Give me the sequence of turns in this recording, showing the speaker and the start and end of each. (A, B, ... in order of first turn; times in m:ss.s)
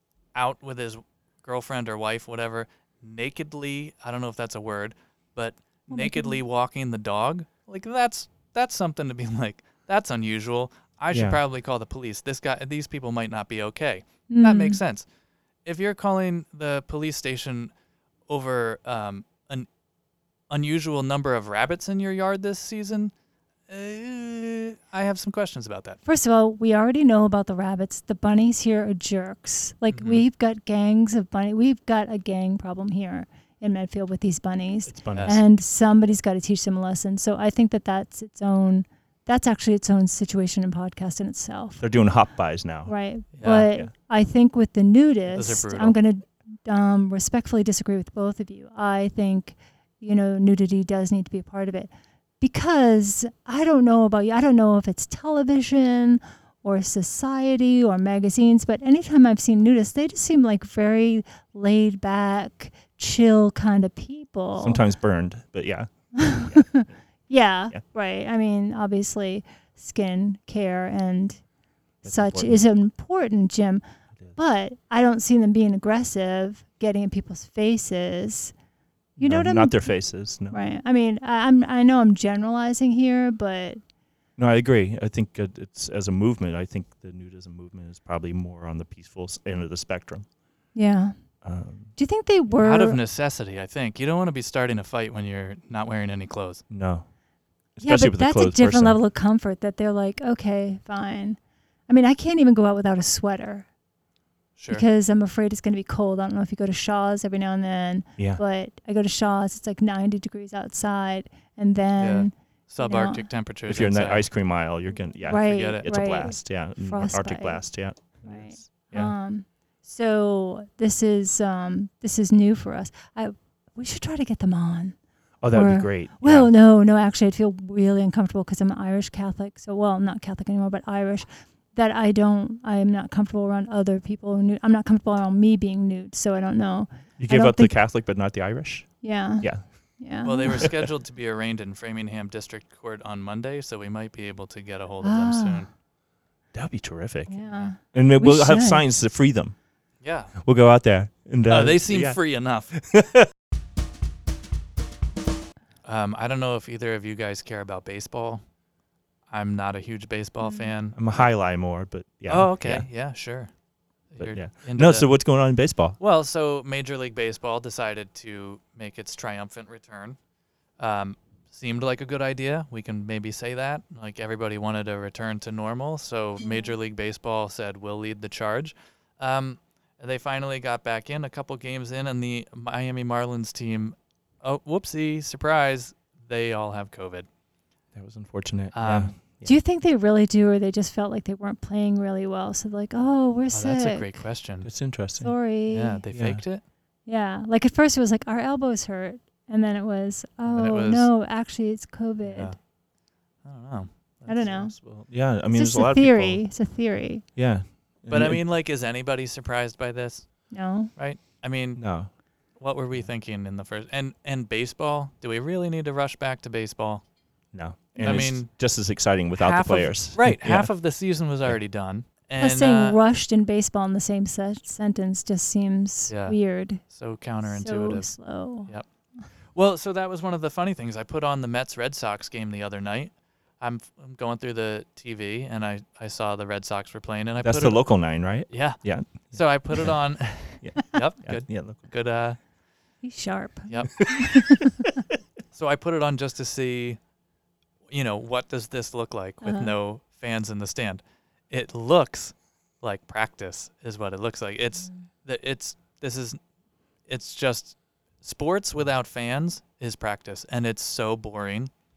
0:00.4-0:15.1 A
0:05.9-0:06.4 B
0:11.1-0:11.4 C
0:14.3-0:14.8 B
0:15.6-0:17.7 A
0:18.3-0:19.7 A
0:20.5-0:23.1 A
0:23.7-0:26.0 A
0:26.1-0:41.8 B
0:29.9-0:30.2 A
0:34.9-0:35.4 C
0:35.1-0:35.4 A
0:41.8-0:42.9 C
0:42.9-1:04.8 B
0:43.4-0:43.7 A
0:45.3-0:46.0 A
1:04.6-1:06.7 C
1:06.1-1:11.4 B
1:12.0-1:12.6 C
1:12.0-1:13.8 B
1:14.4-1:18.5 B
1:19.2-1:20.6 C
1:19.2-1:19.9 B
1:20.5-1:23.8 B
1:24.4-1:30.2 C
1:30.8-1:31.1 B
1:31.4-1:31.9 C
1:32.0-1:33.0 B
1:32.5-1:36.6 A
1:36.7-1:37.1 C
1:37.8-1:39.0 C
1:37.8-1:43.7 B
1:44.6-1:44.8 A
1:44.7-1:53.3 B
1:52.0-1:54.3 A
1:53.7-1:59.1 C
1:55.3-1:57.6 B
1:55.4-1:55.8 A
1:58.2-2:05.0 B
2:05.4-2:06.5 C
2:05.5-2:17.7 B
2:17.2-2:19.6 C
2:19.0-2:20.6 B
2:20.2-2:25.7 A
2:20.6-2:20.9 C
2:25.0-2:25.6 B
2:26.5-2:27.4 C
2:27.3-2:28.8 B
2:27.4-2:27.7 A
2:27.9-2:29.5 C
2:30.0-2:30.4 A
2:30.4-2:32.2 C
2:31.5-2:32.7 A
2:32.7-2:33.3 C
2:35.8-2:38.4 A
2:39.3-2:41.0 A
2:40.4-2:40.7 B
2:40.9-2:42.9 C
2:42.3-2:43.5 A
2:44.1-2:45.1 A
2:44.2-2:46.0 C
2:46.0-2:50.2 A
2:50.8-3:07.3 A
2:56.4-2:56.7 B
3:08.0-3:09.6 C
3:08.7-3:09.1 A
3:09.4-3:14.2 B
3:13.5-3:14.7 A
3:14.6-3:15.3 C
3:15.2-3:16.0 B
3:15.7-3:16.6 A
3:16.1-3:16.4 C
3:17.1-3:22.5 B
3:20.5-3:21.1 A
3:22.2-3:22.6 A
3:23.4-3:24.5 A
3:24.2-3:24.8 B
3:24.4-3:26.4 C
3:25.5-3:27.2 B
3:27.4-3:28.4 C
3:28.1-3:31.8 A
3:30.5-3:30.9 B
3:31.8-3:32.1 C
3:32.6-3:37.0 A
3:37.5-3:40.7 C
3:38.0-3:38.5 A
3:39.4-3:43.0 A
3:42.4-3:46.8 B
3:46.1-3:48.8 A
3:47.4-3:48.7 B
3:49.5-3:57.9 A
3:57.4-4:01.8 C
3:58.5-4:02.4 A
4:03.0-4:04.8 B
4:03.7-4:04.0 A
4:05.5-4:07.0 A
4:07.9-4:16.4 A
4:09.4-4:09.7 B
4:17.1-4:21.7 A